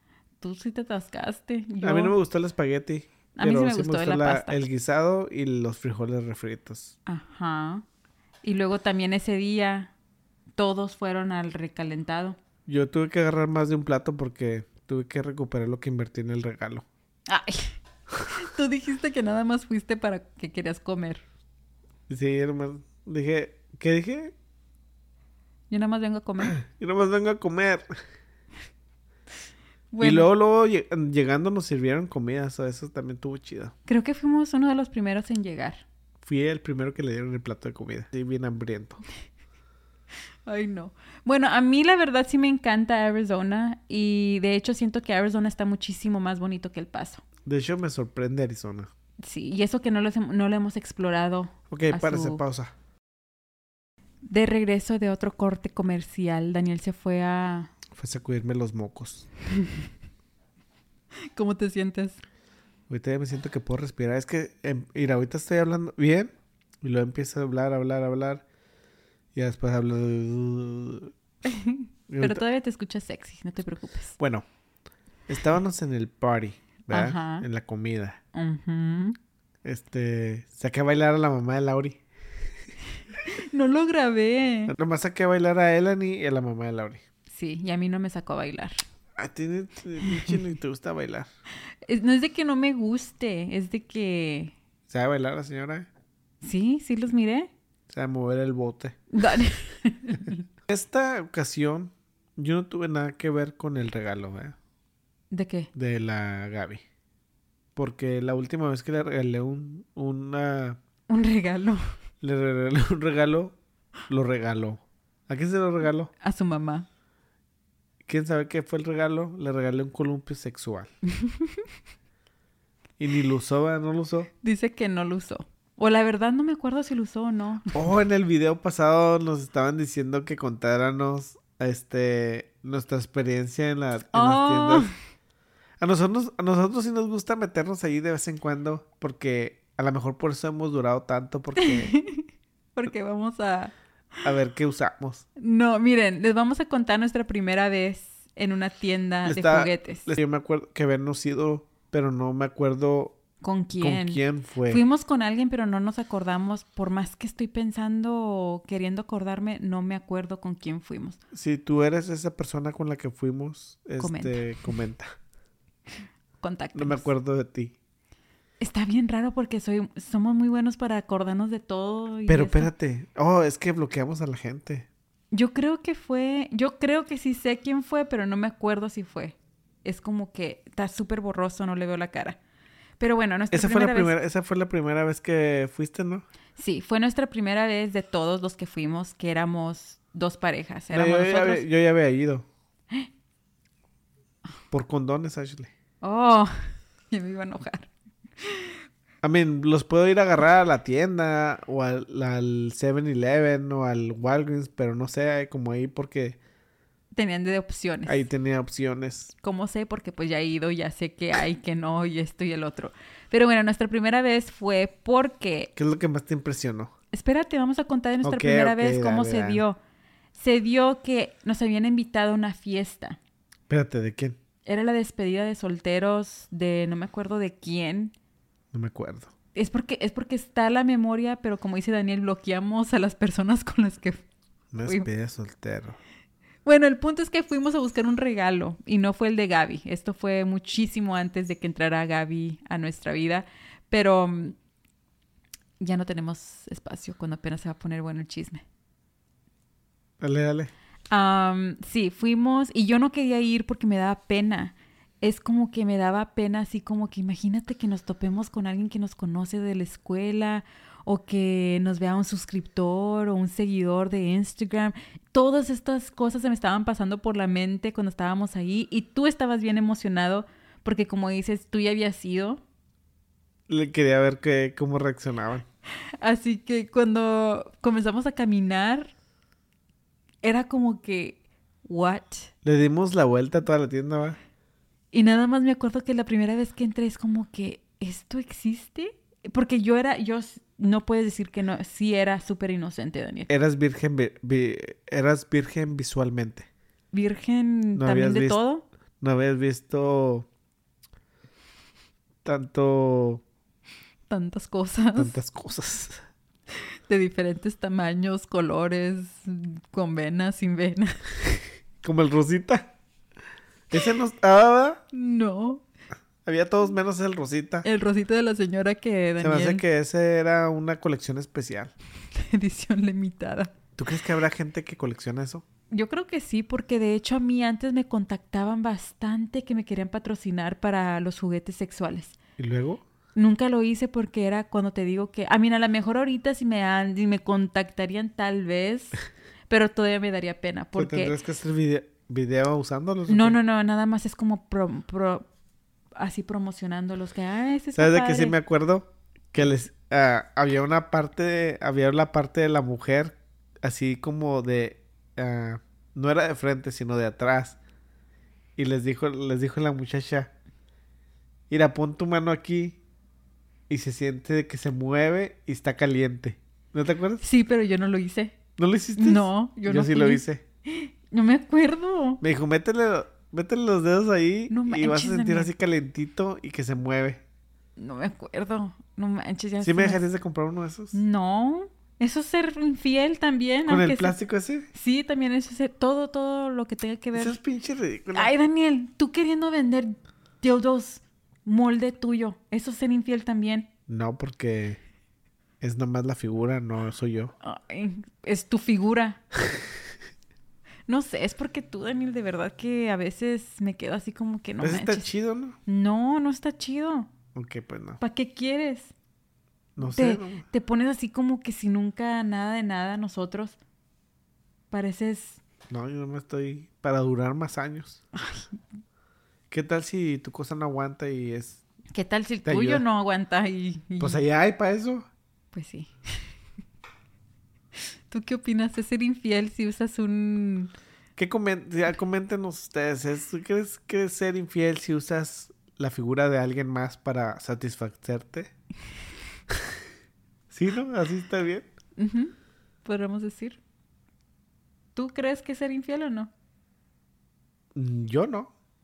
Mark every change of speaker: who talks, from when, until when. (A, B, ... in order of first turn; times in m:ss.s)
0:00.4-0:02.2 A
0:01.8-0:07.0 B
0:03.4-0:04.6 A
0:07.1-0:07.8 A
0:08.4-0:09.9 A
0:10.6-0:12.4 A
0:12.6-0:16.9 B
0:17.3-0:21.2 A
0:22.1-0:24.3 B
0:25.7-0:26.6 A
0:26.5-0:27.9 B
0:29.9-0:30.3 A
0:30.0-0:33.7 B
0:33.9-0:35.8 A
0:36.2-0:39.0 B
0:40.4-0:47.2 A
0:47.4-0:48.9 B
0:49.2-0:52.4 A
0:51.7-0:52.7 B
0:54.2-0:57.7 A
0:57.9-0:59.3 B
0:59.6-0:59.9 A
1:01.3-1:02.2 A
1:02.9-1:08.4 B
1:09.4-1:11.1 B
1:11.4-1:14.2 A
1:12.1-1:12.4 B
1:14.2-1:14.4 B
1:15.3-1:18.2 B
1:16.9-1:17.4 A
1:18.3-1:19.2 A
1:19.6-1:22.0 B
1:23.2-1:24.7 A
1:24.7-1:27.0 B
1:27.3-1:28.8 A
1:29.2-1:31.3 B
1:30.1-1:30.4 A
1:31.8-1:34.5 A
1:34.9-1:35.9 B
1:36.4-1:37.5 A
1:37.9-1:39.0 B
1:39.1-1:40.4 A
1:40.7-1:44.6 B
1:45.3-1:45.7 A
1:45.7-1:46.8 B
1:47.8-1:50.8 B
1:51.1-1:51.8 A
1:52.2-1:53.6 B
1:54.1-1:56.1 B
1:56.2-1:56.9 A
1:58.1-2:00.9 B
2:01.1-2:01.7 A
2:03.0-2:04.3 B
2:04.4-2:07.8 A
2:07.7-2:14.9 B
2:14.1-2:14.9 A
2:15.8-2:21.9 B
2:21.6-2:23.7 A
2:24.2-2:25.2 B
2:25.4-2:30.1 A
2:29.2-2:33.2 B
2:33.4-2:41.2 A
2:33.8-2:34.8 B
2:41.3-2:45.1 B
2:44.0-2:44.4 A
2:46.4-2:47.1 A
2:46.7-2:47.8 B
2:48.6-2:52.7 A
2:52.3-2:54.9 B
2:55.3-3:02.4 A
3:03.0-3:04.1 A
3:03.5-3:06.2 B
3:06.6-3:11.6 A
3:10.9-3:12.4 B
3:14.7-3:15.7 B
3:16.0-3:16.5 A
3:17.1-3:18.8 A
3:19.2-3:26.4 B
3:27.1-3:28.3 A
3:28.1-3:29.3 B
3:29.4-3:35.7 A
3:35.8-3:36.9 B
3:37.1-3:39.8 A
3:38.2-3:39.6 B
3:40.4-3:43.2 A
3:43.7-3:44.4 B
3:44.6-3:48.1 A
3:48.7-3:49.3 B
3:49.5-3:54.2 A
3:54.7-3:56.0 B
3:56.6-4:04.6 A
4:05.8-4:08.6 A
4:10.2-4:10.7 B
4:11.1-4:32.6 A
4:33.7-4:35.6 B
4:36.2-4:39.1 A
4:40.4-4:42.5 A
4:42.6-4:44.4 B
4:45.1-4:53.5 A
4:53.5-4:56.7 B
4:57.1-4:58.8 A
4:57.9-4:58.6 B
4:59.2-5:00.5 B
5:02.4-5:03.4 B
5:04.3-5:05.4 A
5:05.1-5:06.2 B
5:06.7-5:11.2 A
5:12.0-5:12.9 B
5:13.9-5:15.0 B
5:15.1-5:15.8 A
5:16.4-5:17.9 B
5:17.8-5:19.8 A
5:19.4-5:21.9 B
5:22.3-5:23.7 A
5:24.0-5:25.6 B
5:25.9-5:32.4 A
5:32.6-5:33.0 B
5:33.4-5:39.2 A
5:39.7-5:41.4 A
5:41.0-5:43.6 B
5:43.3-5:45.5 A
5:46.2-5:48.6 A
5:47.9-5:57.8 B
5:58.8-6:00.5 B
6:01.7-6:03.0 B
6:03.9-6:07.4 B
6:07.4-6:08.6 A
6:08.8-6:10.6 B
6:09.2-6:12.4 A
6:12.4-6:17.4 B
6:14.7-6:15.7 A
6:18.0-6:20.2 A
6:19.8-6:21.2 B
6:21.1-6:24.4 A
6:23.9-6:24.9 B
6:24.9-6:27.6 A
6:27.4-6:28.5 B
6:28.3-6:33.9 A
6:34.1-6:35.0 B
6:35.8-6:37.5 B
6:37.6-6:39.4 A
6:41.1-6:45.3 A
6:44.8-6:45.8 B
6:45.9-6:47.3 A
6:47.5-6:48.2 B
6:48.2-6:49.1 A
6:50.0-6:50.6 B
6:50.0-6:53.8 A
6:54.9-6:55.6 A
6:55.9-6:58.2 B
6:58.4-6:58.7 A
6:59.7-7:01.8 B
7:02.1-7:04.4 A
7:02.6-7:03.0 B
7:04.2-7:05.3 B
7:05.7-7:06.5 A
7:08.3-7:10.9 A
7:11.4-7:18.7 B
7:19.7-7:20.0 B
7:20.7-7:21.9 B
7:22.2-7:23.8 A
7:25.1-7:26.5 A
7:27.9-7:28.7 B